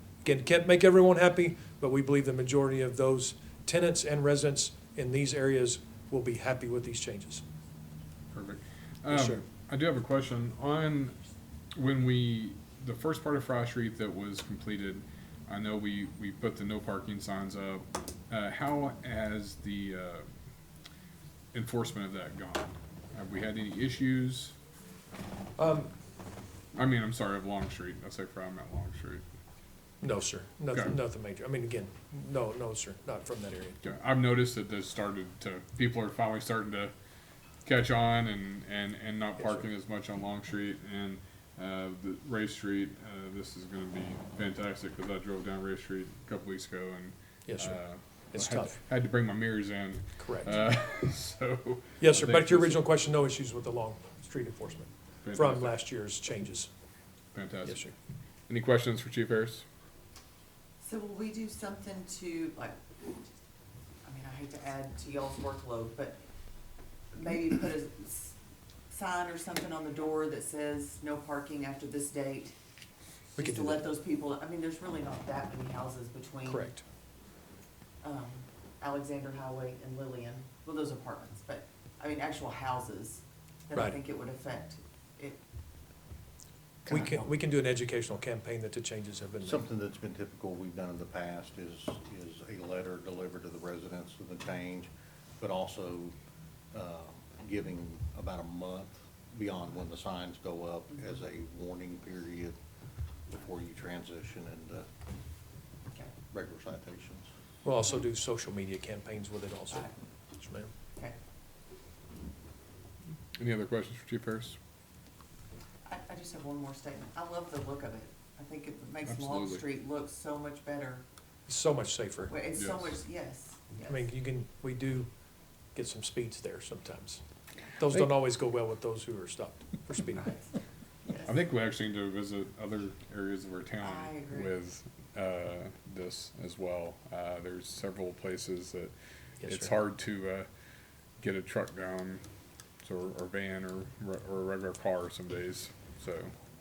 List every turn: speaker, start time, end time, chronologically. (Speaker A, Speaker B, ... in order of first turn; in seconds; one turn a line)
Speaker A: 0.2-7.4
Speaker B: 8.3-11.2
Speaker A: 9.1-9.4
Speaker B: 11.7-20.2
Speaker B: 21.5-24.5
Speaker A: 25.6-25.9
Speaker B: 26.7-29.2
Speaker A: 30.0-33.8
Speaker B: 33.8-36.9
Speaker B: 37.6-52.8
Speaker A: 39.4-39.6
Speaker A: 47.5-47.8
Speaker A: 48.3-48.8
Speaker A: 50.2-50.6
Speaker A: 52.0-56.7
Speaker B: 55.2-55.7
Speaker B: 57.3-57.9
Speaker A: 57.6-57.9
Speaker B: 58.5-59.6
Speaker C: 60.8-62.8
Speaker C: 64.0-66.2
Speaker C: 67.1-68.3
Speaker C: 68.9-72.5
Speaker A: 73.3-73.8
Speaker C: 73.3-76.7
Speaker A: 76.4-76.8
Speaker C: 78.0-85.4
Speaker C: 86.8-87.2
Speaker A: 86.9-89.7
Speaker D: 89.4-94.9
Speaker D: 95.4-96.1
Speaker D: 96.7-102.5
Speaker C: 100.9-101.2
Speaker D: 103.3-104.8
Speaker D: 106.3-107.2
Speaker A: 107.6-110.7
Speaker B: 113.3-114.6
Speaker C: 115.8-121.0
Speaker B: 119.0-119.7
Speaker A: 121.5-122.3
Speaker C: 122.3-124.0
Speaker B: 122.5-123.0
Speaker A: 123.9-125.1
Speaker A: 125.7-127.2
Speaker A: 127.8-130.3
Speaker C: 130.1-130.4
Speaker C: 131.0-131.4
Speaker B: 131.2-138.9
Speaker C: 133.8-134.5
Speaker A: 139.4-139.7
Speaker B: 139.4-140.5
Speaker B: 141.2-142.2
Speaker B: 142.8-146.3